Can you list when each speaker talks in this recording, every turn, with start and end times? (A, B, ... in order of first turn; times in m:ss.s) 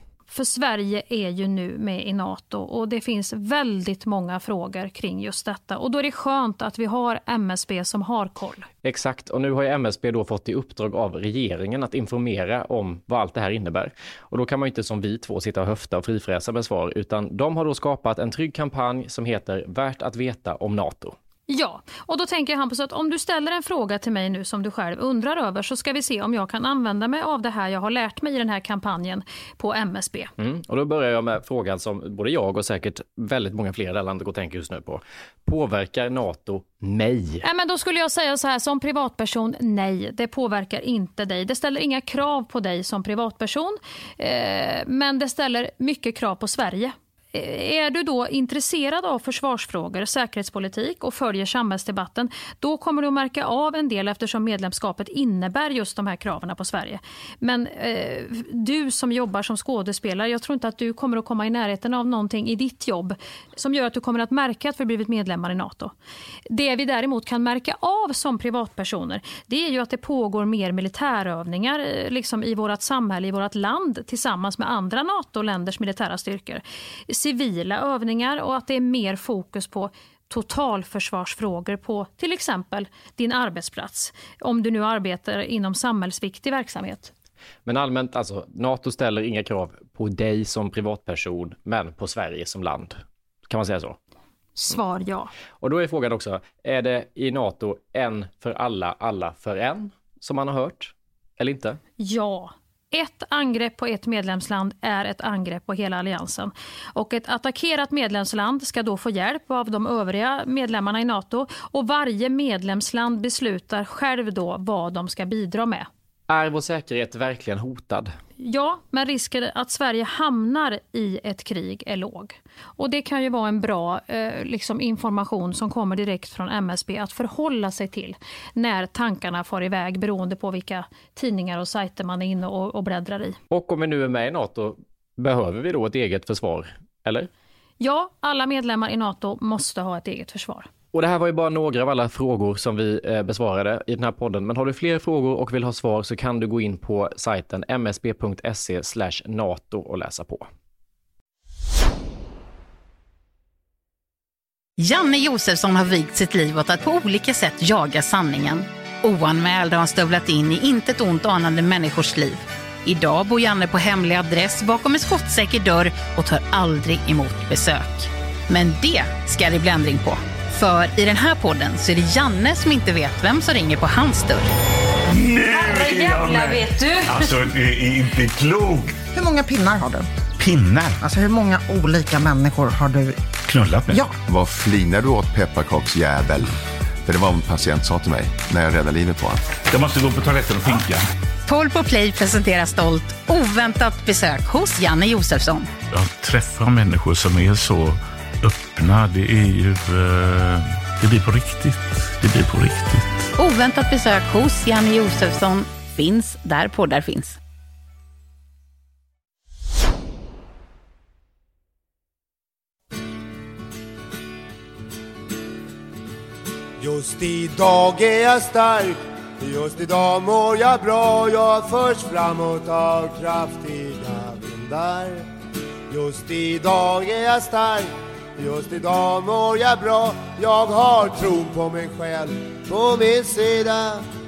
0:00.3-0:08.7 A
0:08.8-0:21.2 B
0:21.5-0:30.3 A
0:30.4-0:37.4 B
0:37.4-1:05.9 A
1:06.5-1:27.1 A
1:27.6-1:34.0 B
1:34.6-1:35.3 A
1:35.6-1:41.8 B
1:42.0-1:55.9 A
1:56.3-1:58.1 B
1:58.4-2:13.4 A
2:13.5-2:17.3 B
2:17.8-2:20.7 A
2:20.9-2:30.5 B
2:34.8-2:54.5 C
2:55.1-2:59.0 D
2:55.5-2:57.3 A
2:59.1-3:00.1 E
3:00.4-3:01.0 D
3:01.0-3:03.2 E
3:03.4-3:04.0 D
3:03.9-3:04.1 E
3:04.2-3:06.5 F
3:07.0-3:09.6 F
3:09.7-3:11.0 D
3:11.5-3:15.7 C
3:15.9-3:23.2 D
3:23.4-3:27.4 C
3:36.8-3:45.2 G
3:45.9-3:54.0 G